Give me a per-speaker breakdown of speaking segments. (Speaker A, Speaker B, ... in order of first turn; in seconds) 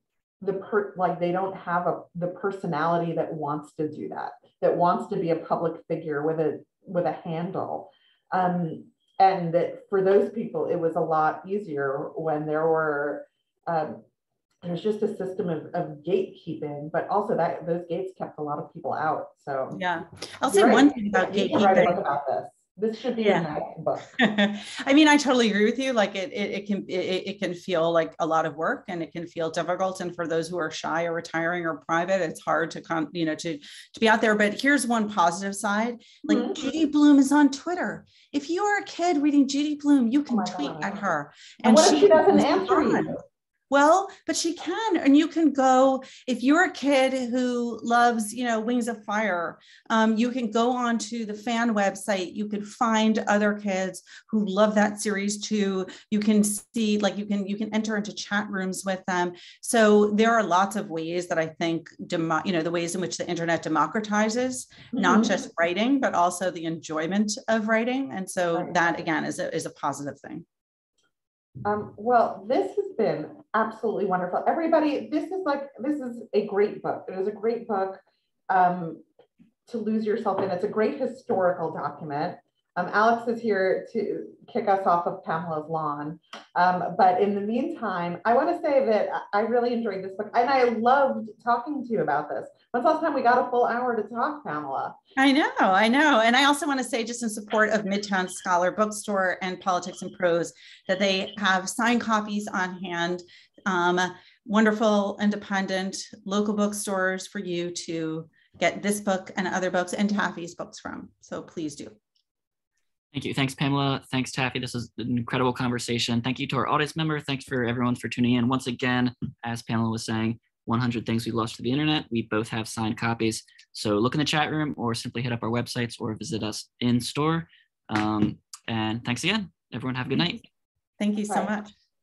Speaker A: 0.4-14.0, 14.6-19.8, 20.4-24.1, 36.3-36.6, 40.3-41.1, 41.6-43.2, 64.9-65.4, 68.5-68.8, 71.6-79.0, 79.7-95.0, 131.3-131.6
Speaker B: 19.7-22.0, 23.2-23.5, 24.2-43.2, 43.7-70.5, 95.2-112.0, 131.0-131.7
Speaker C: 113.1-130.4